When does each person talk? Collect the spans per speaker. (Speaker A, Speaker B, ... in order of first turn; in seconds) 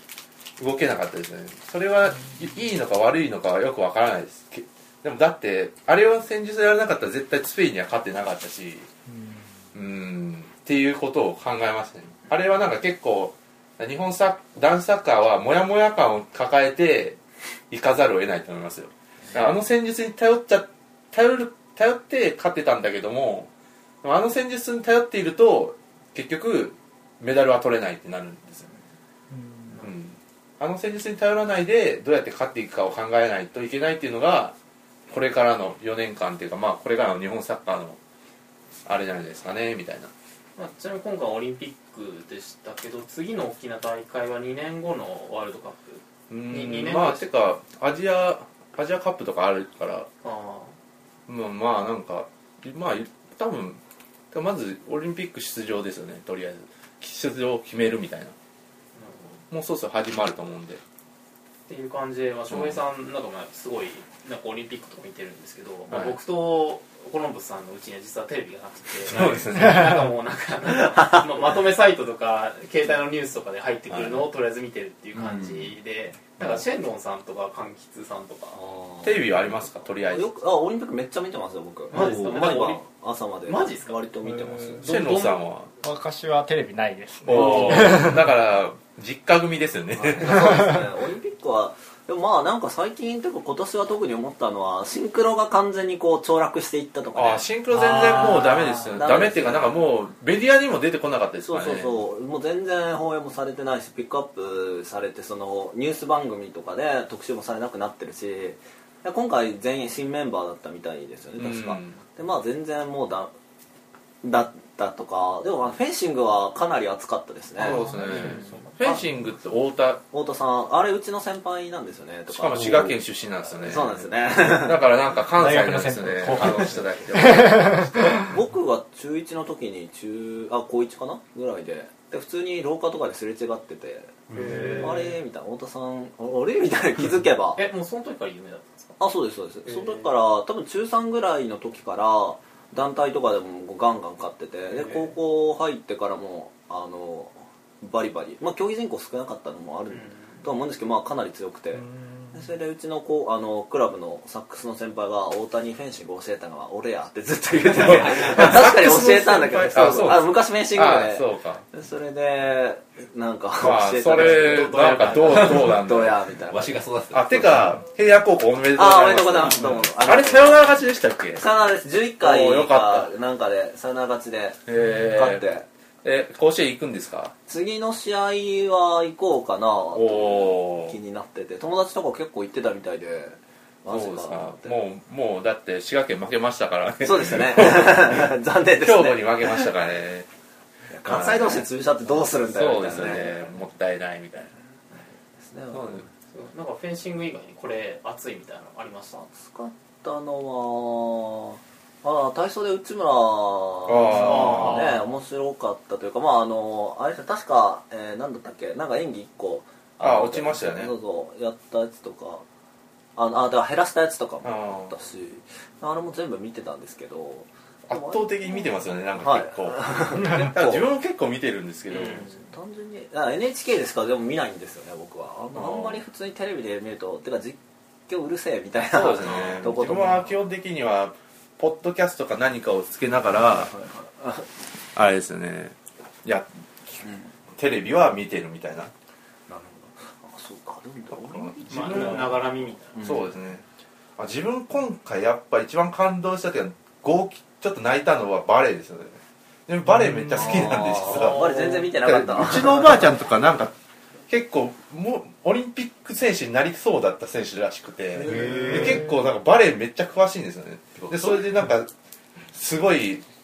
Speaker A: 0.6-8.9, 9.7-17.2, 17.7-23.5, 24.0-28.7, 29.8-34.5, 35.1-38.0, 38.8-40.1, 46.3-50.1, 51.3-53.8, 54.3-58.3, 59.5-60.8, 62.5-62.8, 65.9-66.2, 69.0-70.0, 73.9-74.2, 79.0-80.3, 84.8-85.7, 87.2-90.7, 97.1-102.0, 111.4-112.0, 117.6-120.0, 122.3-128.2, 134.3-134.7, 157.7-161.6, 163.6-166.2, 167.1-171.5, 172.2-173.1, 174.7-175.5, 176.0-177.3, 179.9-181.0, 183.9-190.3, 191.0-191.7, 192.5-194.5, 195.7-196.1, 203.9-205.0, 210.0-210.9, 214.4-214.9, 217.9-222.3, 225.5-226.0, 228.9-233.7, 234.9-237.0, 237.6-238.9, 241.1-242.4, 243.0-243.6, 244.2-253.7, 254.3-261.9, 262.5-263.2
Speaker B: 9.1-9.5, 29.3-29.8, 84.2-84.8, 85.8-88.3, 125.3-128.3, 134.4-135.0, 151.7-152.5, 220.2-220.5, 249.9-250.4, 258.3-259.0
Speaker C: 40.6-47.3, 50.2-50.8, 58.9-59.4, 61.7-78.6, 81.9-82.8, 83.5-84.0, 84.8-85.4, 87.3-87.8, 117.7-118.7, 134.3-135.1, 137.6-139.0, 139.7-140.1, 144.7-145.1, 149.9-150.4, 196.3-199.3, 204.3-204.8, 229.3-229.6, 241.7-243.1, 251.1-251.8
Speaker D: 75.3-75.6, 78.5-79.4, 80.0-84.8, 90.0-99.8, 101.4-113.3, 114.2-117.8, 120.1-123.0, 123.5-124.8, 126.3-126.7, 128.1-137.6, 139.0-166.8, 168.7-170.6, 171.3-175.7, 177.5-184.8, 187.0-189.7, 190.9-193.5, 195.4-196.1, 199.3-212.4, 213.2-220.9, 221.9-230.3, 233.4-234.5, 239.5-243.3, 250.3-253.1, 258.2-258.9
Speaker E: 81.9-82.3, 166.5-167.7, 261.0-261.4